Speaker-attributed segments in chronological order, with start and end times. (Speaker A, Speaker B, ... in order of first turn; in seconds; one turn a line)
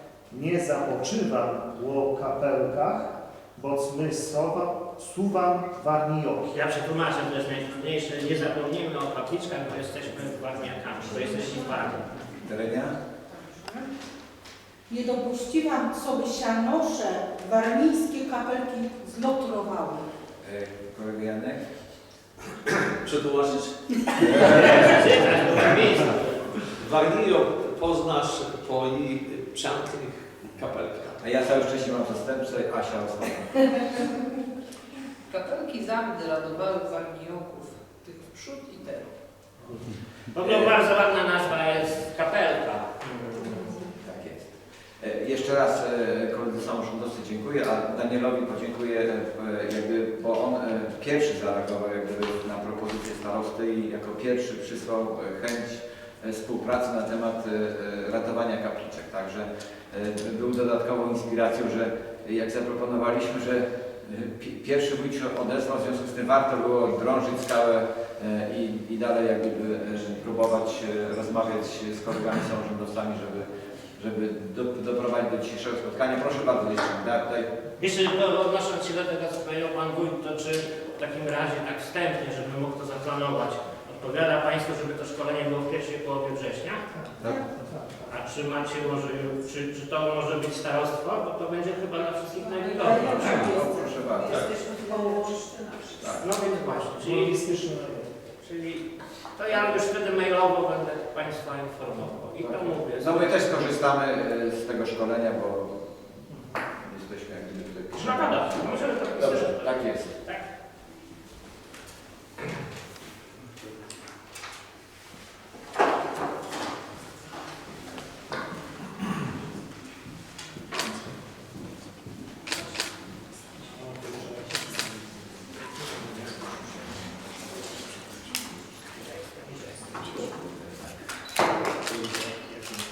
Speaker A: 0.3-6.5
Speaker B: 6.5-12.1
Speaker C: 12.4-12.9
Speaker D: 13.3-13.9
Speaker D: 14.9-20.1
Speaker C: 20.4-21.6
Speaker E: 23.0-25.0
Speaker C: 24.2-25.0
Speaker B: 24.4-26.5
Speaker E: 26.6-31.2
Speaker C: 31.2-34.0
Speaker F: 35.3-39.1
Speaker B: 40.3-43.8
Speaker C: 43.9-44.5
Speaker C: 45.0-77.5
Speaker B: 77.8-86.8
Speaker A: 86.9-88.2
Speaker C: 87.2-87.5
Speaker B: 88.1-93.5
Speaker D: 92.5-95.6
Speaker C: 92.9-94.5
Speaker F: 94.4-96.0
Speaker C: 96.0-96.3
Speaker B: 96.1-97.3
Speaker A: 97.0-98.1
Speaker B: 98.4-103.7
Speaker C: 99.5-99.8
Speaker C: 102.4-105.9
Speaker C: 106.8-110.1
Speaker B: 107.9-110.4
Speaker A: 123.8-124.8